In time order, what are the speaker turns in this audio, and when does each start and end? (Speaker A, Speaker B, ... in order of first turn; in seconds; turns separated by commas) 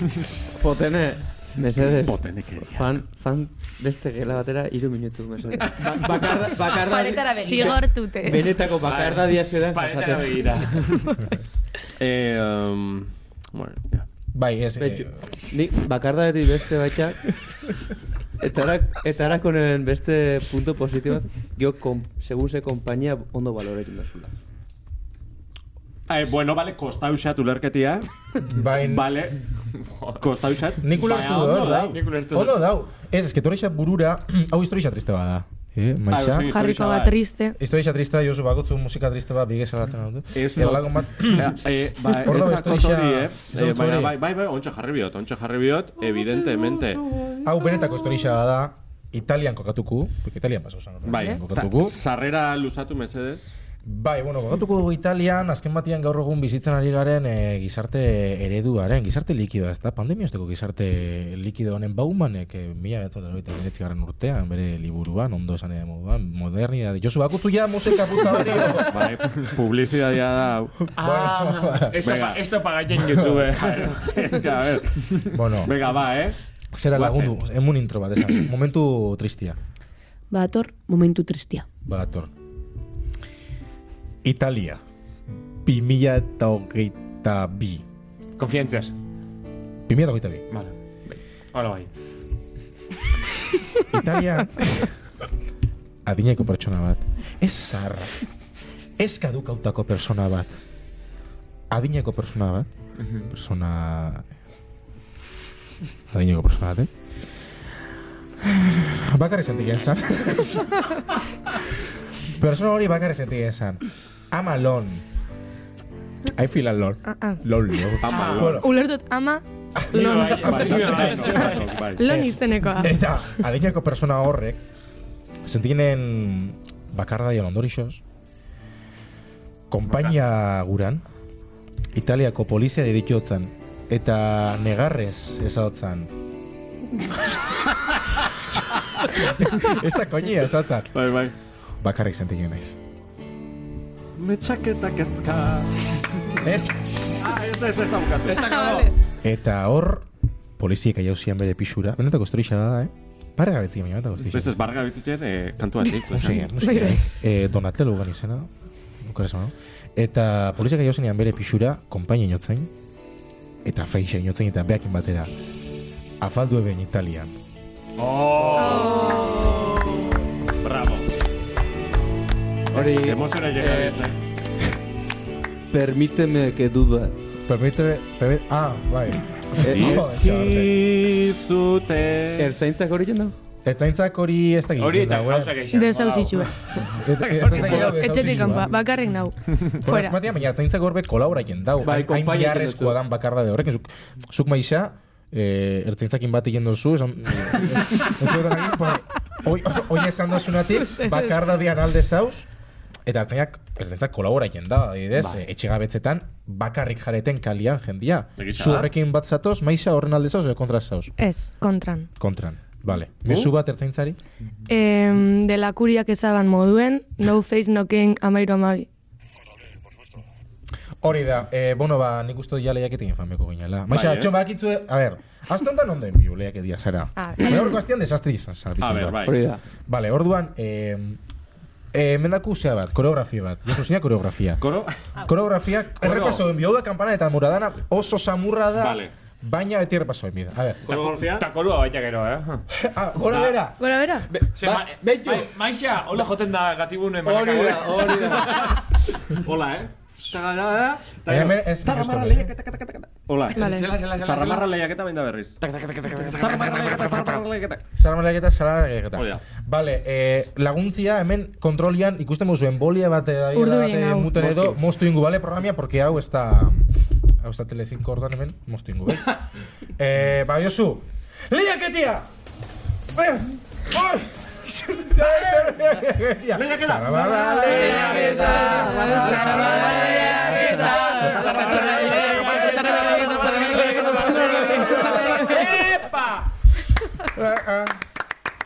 Speaker A: 0.5-10.6, Speaker B: 1.9-2.8, Speaker C: 6.8-7.8, Speaker D: 7.3-8.5, Speaker E: 8.8-11.2, Speaker B: 12.0-14.1, Speaker F: 14.3-15.2, Speaker A: 14.8-17.3, Speaker A: 18.4-24.3, Speaker B: 26.1-28.1, Speaker F: 28.4-29.1, Speaker B: 28.6-29.4, Speaker E: 29.7-30.2, Speaker B: 30.2-32.0, Speaker F: 30.8-36.5, Speaker E: 31.6-32.7, Speaker B: 36.1-37.2, Speaker D: 36.4-37.6, Speaker F: 37.6-41.6, Speaker B: 40.3-47.2, Speaker F: 42.1-44.1, Speaker F: 47.4-52.0, Speaker B: 51.0-53.6, Speaker F: 53.8-69.4, Speaker B: 68.6-70.8, Speaker F: 70.9-72.0, Speaker E: 71.0-74.0, Speaker B: 72.0-72.4, Speaker B: 73.5-76.4, Speaker F: 75.3-75.8, Speaker F: 76.7-79.6, Speaker B: 76.9-77.3, Speaker C: 80.3-81.6, Speaker F: 81.8-82.3, Speaker F: 84.2-84.8, Speaker F: 85.6-87.8, Speaker E: 88.4-88.9, Speaker F: 89.9-90.4, Speaker E: 90.5-91.9, Speaker F: 93.9-94.9, Speaker F: 96.0-98.2, Speaker F: 99.0-100.5, Speaker F: 101.7-102.7, Speaker E: 103.0-103.3, Speaker F: 103.2-104.2, Speaker F: 106.1-106.9, Speaker F: 108.4-111.0, Speaker F: 112.2-115.0, Speaker F: 116.3-118.7, Speaker D: 117.0-117.9, Speaker B: 118.0-118.7, Speaker E: 118.0-118.5, Speaker D: 118.4-120.7, Speaker F: 119.8-124.6, Speaker E: 119.9-121.8, Speaker B: 120.3-122.1, Speaker D: 122.0-123.0, Speaker F: 125.4-128.0, Speaker F: 129.7-131.0, Speaker E: 129.9-130.1, Speaker F: 131.9-136.1, Speaker F: 138.4-140.9, Speaker B: 140.9-141.3, Speaker F: 141.8-142.8, Speaker B: 144.2-146.4, Speaker F: 146.4-147.4, Speaker B: 147.1-148.9, Speaker E: 148.3-148.6, Speaker D: 148.3-148.9, Speaker F: 149.2-150.1, Speaker F: 150.6-154.6, Speaker B: 154.3-156.5, Speaker F: 155.9-158.5, Speaker F: 159.0-162.7, Speaker F: 163.6-165.3, Speaker F: 166.2-167.3, Speaker E: 168.0-170.0, Speaker D: 168.5-170.1, Speaker B: 170.6-171.1, Speaker A: 172.7-174.0, Speaker B: 172.7-174.2, Speaker A: 175.7-177.1, Speaker F: 177.5-180.8, Speaker B: 179.6-182.5, Speaker A: 179.6-179.9, Speaker A: 182.4-183.3, Speaker F: 183.6-185.6, Speaker E: 184.8-186.5, Speaker D: 185.7-186.5, Speaker F: 186.9-188.7, Speaker E: 187.3-187.9, Speaker D: 187.5-190.2, Speaker F: 189.8-202.5, Speaker A: 191.8-193.0, Speaker D: 200.9-201.4, Speaker F: 203.1-211.1, Speaker B: 208.4-208.9, Speaker D: 211.2-212.1, Speaker F: 212.2-214.2, Speaker D: 214.7-218.9, Speaker F: 221.0-229.3, Speaker B: 223.9-224.3, Speaker D: 227.2-227.7, Speaker B: 228.8-229.4, Speaker A: 229.2-229.6, Speaker F: 229.9-231.2, Speaker F: 231.9-234.6, Speaker B: 234.6-235.0, Speaker F: 235.2-240.8, Speaker E: 236.0-236.4, Speaker B: 238.8-239.1, Speaker B: 240.8-241.5, Speaker E: 240.9-242.6, Speaker F: 242.7-243.8, Speaker B: 243.3-243.6, Speaker D: 243.8-244.3, Speaker A: 244.3-245.5, Speaker E: 244.6-248.8, Speaker A: 247.2-248.7, Speaker B: 248.5-248.8, Speaker B: 249.3-257.8, Speaker F: 251.3-252.5, Speaker D: 253.5-254.0, Speaker E: 253.5-254.7, Speaker F: 257.9-266.9, Speaker B: 259.1-259.4, Speaker D: 263.5-264.4, Speaker F: 267.4-269.4, Speaker F: 270.0-272.3, Speaker F: 273.1-279.7, Speaker B: 275.3-275.7, Speaker B: 276.5-283.7, Speaker E: 277.7-286.5, Speaker D: 277.9-285.7, Speaker A: 278.5-280.3, Speaker F: 281.1-283.0, Speaker F: 284.1-286.0, Speaker F: 287.2-288.0